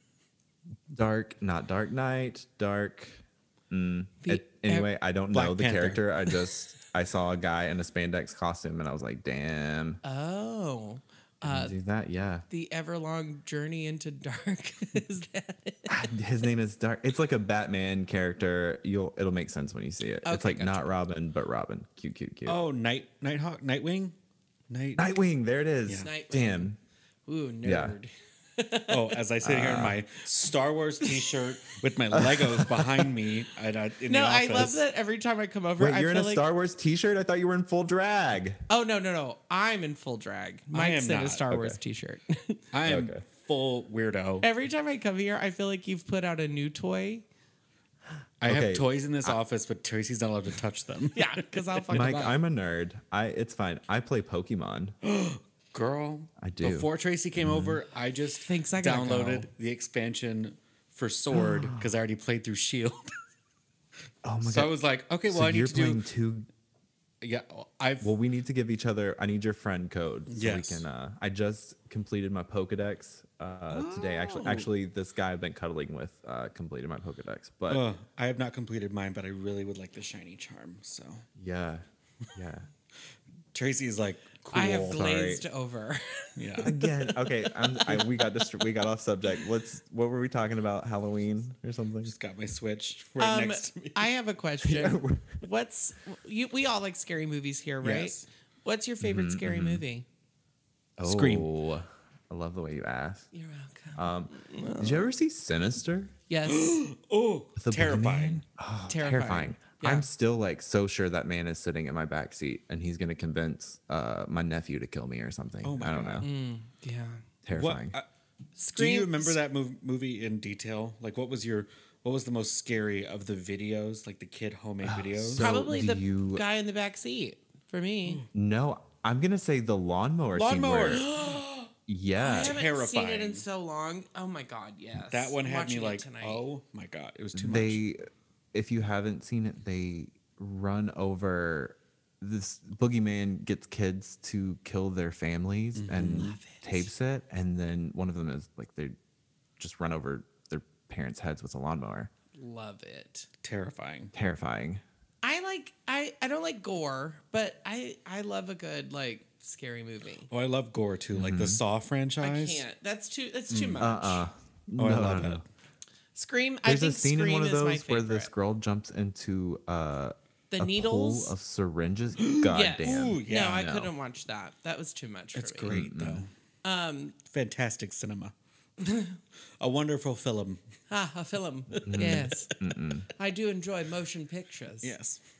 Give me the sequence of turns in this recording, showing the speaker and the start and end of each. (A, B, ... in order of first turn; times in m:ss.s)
0:00.9-0:10.0 A
0:04.2-0:04.9 B
0:05.3-0:06.0 C
0:10.0-0:11.7 B
0:11.4-0:12.4 A
0:12.5-0:15.9 B
0:15.9-0:22.6 A
0:20.2-0:20.9 B
0:22.4-0:24.1 C
0:24.7-0:25.0 C
0:25.0-0:26.8 A
0:26.0-0:26.7 B
0:27.2-0:29.2 B
0:27.6-0:27.9 A
0:28.9-0:34.8 C
0:29.4-0:30.0 A
0:31.0-0:31.3 B
0:32.1-0:33.1 A
0:34.1-0:36.4 B
0:35.8-0:38.6 A
0:38.7-0:42.6 B
0:40.7-0:41.5 C
0:41.5-0:41.8 A
0:42.7-0:44.5 C
0:42.8-0:43.2 A
0:44.4-0:47.2 B
0:48.4-0:51.8 C
0:48.4-0:49.4 A
0:51.1-0:52.4 B
0:51.9-0:54.9 A
0:55.0-1:03.1 C
0:56.4-0:56.9 A
0:57.4-0:57.8 A
0:58.4-0:59.5 B
1:01.3-1:01.9 A
1:04.2-1:04.7 A
1:04.4-1:06.0 C
1:05.3-1:06.5 A
1:07.2-1:08.1 C
1:08.0-1:17.8 A
1:10.3-1:10.8 C
1:13.7-1:14.7 C
1:17.7-1:21.2 C
1:21.4-1:22.6 A
1:23.5-1:25.1 C
1:24.5-1:26.9 B
1:25.0-1:25.4 A
1:26.4-1:26.7 C
1:26.6-1:32.1 A
1:32.0-1:34.1 C
1:33.2-1:40.0 B
1:34.6-1:35.4 A
1:37.8-1:38.2 C
1:39.0-1:39.8 A
1:41.0-1:43.3 A
1:41.0-1:41.5 C
1:43.3-1:45.1 B
1:44.0-1:46.1 A
1:46.3-1:46.8 B
1:46.4-1:48.4 C
1:47.6-1:56.3 A
1:48.9-1:50.1 B
1:55.6-1:56.3 C
1:56.2-1:57.2 B
1:57.4-1:58.0 A
1:57.5-1:58.0 C
1:58.6-1:59.4 B
1:58.7-2:05.5 C
2:04.8-2:06.4 A
2:05.4-2:08.2 B
2:08.3-2:11.0 A
2:10.3-2:11.4 C
2:10.9-2:11.7 B
2:11.9-2:12.6 A
2:12.2-2:16.4 B
2:12.3-2:13.4 C
2:15.1-2:17.8 C
2:17.3-2:18.0 A
2:18.5-2:28.9 A
2:25.8-2:26.4 C
2:26.1-2:26.9 B
2:29.6-2:32.1 A
2:32.3-2:33.3 B
2:33.4-2:34.1 C
2:34.1-2:34.8 A
2:35.2-2:40.3 B
2:40.3-2:42.6 C
2:41.1-2:41.6 A
2:42.2-2:44.2 B
2:43.5-2:43.9 C
2:43.8-2:45.4 A
2:44.8-2:45.4 C
2:46.1-2:48.3 B
2:46.6-2:53.9 A
2:50.5-2:51.3 B
2:52.2-2:53.6 C
2:52.5-2:55.8 B
2:55.3-2:56.3 C
2:55.7-2:56.2 A
2:56.6-2:57.2 B
2:57.3-2:58.3 C
2:58.8-2:59.2 B
2:59.6-3:00.6 C
3:00.9-3:02.5 B
3:01.8-3:03.1 A
3:03.2-3:04.9 B
3:04.8-3:05.2 C